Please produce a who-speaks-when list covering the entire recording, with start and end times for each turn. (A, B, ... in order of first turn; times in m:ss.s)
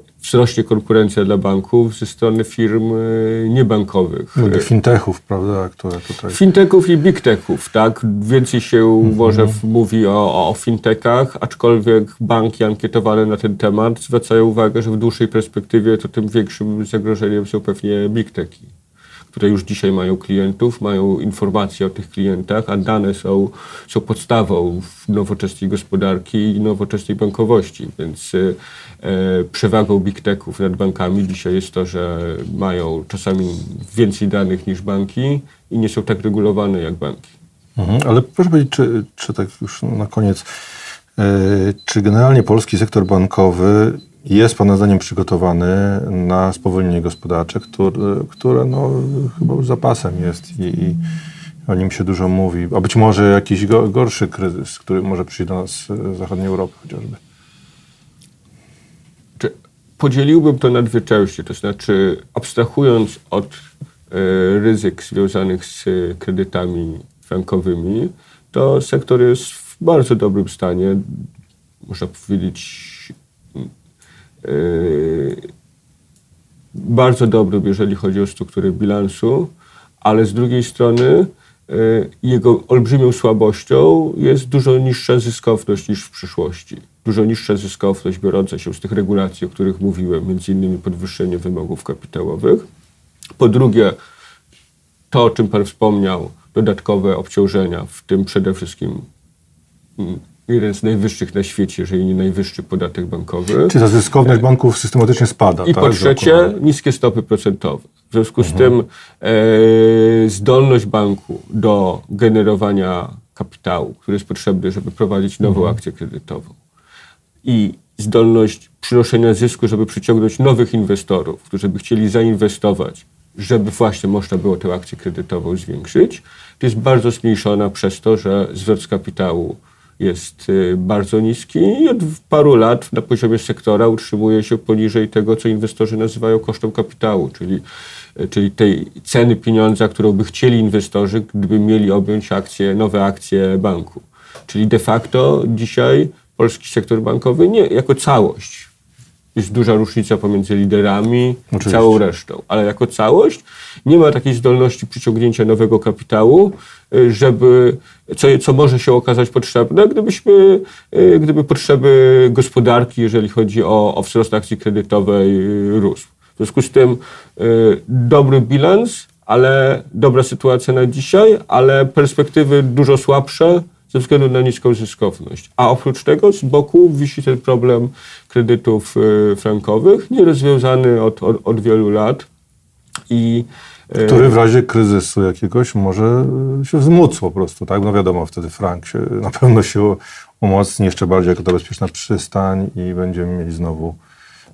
0:00.2-0:04.7 A
0:04.4-0:06.4 B
0:06.3-0:18.7 A
0:19.3-0:37.3 A
0:37.8-0:40.4 B
0:41.2-0:51.0 B
0:51.7-0:57.2 B
0:59.4-1:03.6 A
1:04.1-1:11.2 A
1:11.9-1:13.7 A
1:14.4-1:15.5 A
1:16.8-1:32.7 A
1:33.4-1:34.0 A
1:35.1-1:39.0 A
1:40.0-1:44.4 A
1:43.7-1:46.5 B
1:45.6-1:56.6 A
1:48.4-1:48.7 B
1:55.4-1:55.8 B
1:57.4-2:17.6 A
2:18.2-2:28.7 A
2:29.4-3:02.3 A
2:31.5-2:32.0 B
3:03.1-3:04.4 A
3:04.0-3:14.0 B